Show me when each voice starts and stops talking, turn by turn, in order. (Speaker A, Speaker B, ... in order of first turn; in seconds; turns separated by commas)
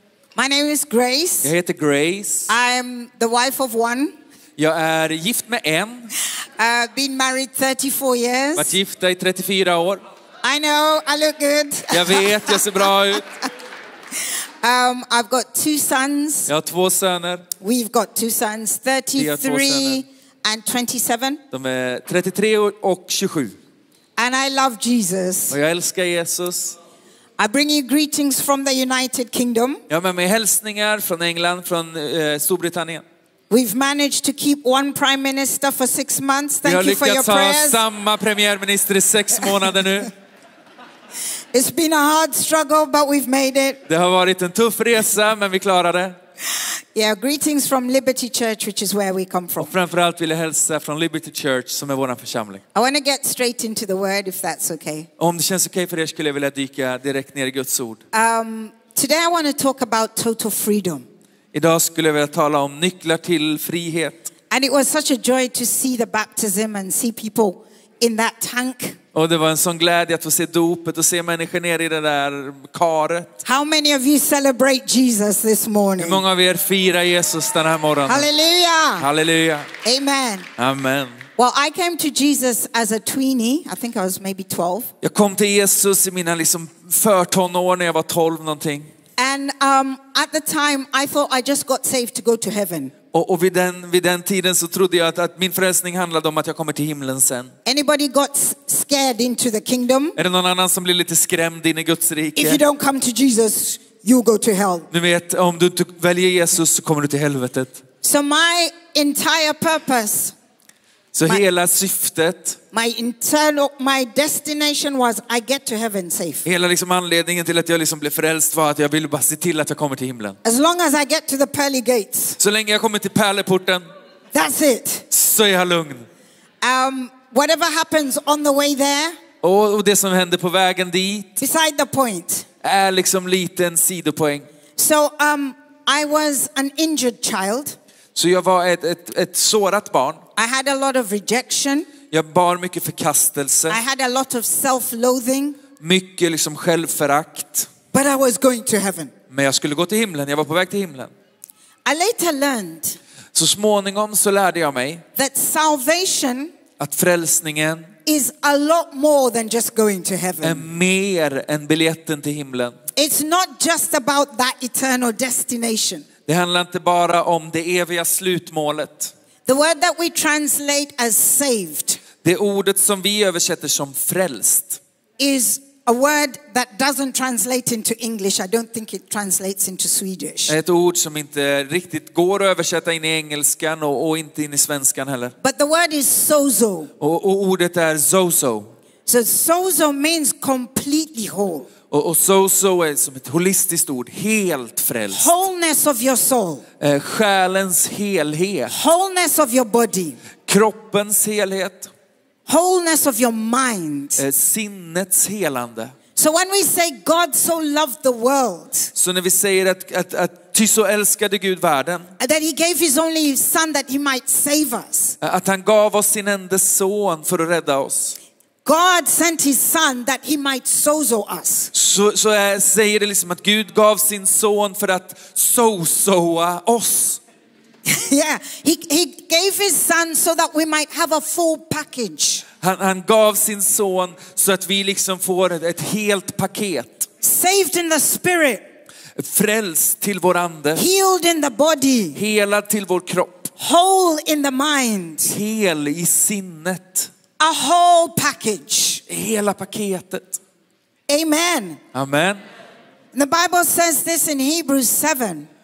Speaker A: 0.3-1.5, Speaker B: 1.4-2.5, Speaker A: 2.5-4.1, Speaker B: 4.6-6.1, Speaker A: 6.6-8.8, Speaker B: 8.6-10.0, Speaker A: 10.4-12.9, Speaker B: 11.9-13.2, Speaker A: 14.6-16.5, Speaker B: 16.5-17.4, Speaker A: 17.6-21.4, Speaker B: 19.1-20.0, Speaker B: 21.5-23.5, Speaker A: 24.2-25.6, Speaker B: 25.5-26.8, Speaker A: 27.4-29.8, Speaker B: 29.9-33.0, Speaker A: 33.5-37.8, Speaker B: 36.6-40.1, Speaker A: 41.5-43.8, Speaker B: 43.9-46.1, Speaker A: 46.9-49.7, Speaker B: 49.6-52.6, Speaker A: 52.7-55.1, Speaker B: 55.2-58.0, Speaker A: 58.1-61.0, Speaker B: 61.5-64.3, Speaker A: 64.5-69.0, Speaker B: 69.1-73.3, Speaker A: 73.4-76.2, Speaker B: 76.0-78.3, Speaker A: 78.0-79.1, Speaker B: 79.0-79.7, Speaker A: 79.8-80.5, Speaker B: 80.6-81.2, Speaker A: 81.4-84.9, Speaker B: 85.0-88.9, Speaker A: 89.2-92.9, Speaker B: 93.1-97.5, Speaker A: 97.6-100.2, Speaker B: 100.2-102.6, Speaker A: 102.4-104.9, Speaker B: 104.9-107.8, Speaker A: 108.0-110.3, Speaker B: 111.1-112.6, Speaker A: 112.7-116.4, Speaker B: 116.4-120.4, Speaker A: 120.4-122.4, Speaker B: 122.4-123.8, Speaker A: 124.3-125.0, Speaker B: 125.1-126.0, Speaker A: 126.6-129.2, Speaker B: 129.4-131.3, Speaker A: 131.4-132.4, Speaker B: 132.6-134.5, Speaker A: 134.8-137.8, Speaker B: 138.1-140.2, Speaker A: 140.3-141.9, Speaker B: 142.1-143.8, Speaker A: 143.7-145.6, Speaker B: 145.8-147.7, Speaker A: 147.9-149.1, Speaker B: 149.3-151.1, Speaker A: 151.8-153.0, Speaker B: 153.3-155.0, Speaker A: 155.2-156.5, Speaker B: 156.8-157.9, Speaker A: 158.0-160.7, Speaker B: 160.4-162.7, Speaker A: 162.9-166.0, Speaker B: 166.3-169.1, Speaker A: 169.5-172.0, Speaker B: 172.2-174.8, Speaker A: 175.2-180.6, Speaker B: 180.5-185.3, Speaker A: 185.4-186.9, Speaker B: 187.0-188.7, Speaker A: 189.1-191.7, Speaker B: 191.9-195.3, Speaker A: 195.1-196.6, Speaker B: 196.8-198.7, Speaker A: 198.7-200.2, Speaker B: 200.4-201.9, Speaker A: 202.5-204.2, Speaker B: 204.2-205.9, Speaker A: 206.2-208.9, Speaker B: 208.9-212.1, Speaker A: 212.2-215.2, Speaker B: 215.2-218.2, Speaker A: 218.6-221.7, Speaker B: 221.7-227.2, Speaker A: 227.8-232.4, Speaker B: 232.6-237.1, Speaker A: 237.2-238.6, Speaker B: 239.2-240.8, Speaker A: 240.7-242.2, Speaker B: 242.1-243.5, Speaker A: 243.6-245.3, Speaker B: 245.3-247.1, Speaker A: 247.4-249.0, Speaker B: 249.1-250.4, Speaker A: 251.1-251.8, Speaker B: 251.9-252.4, Speaker A: 253.1-255.5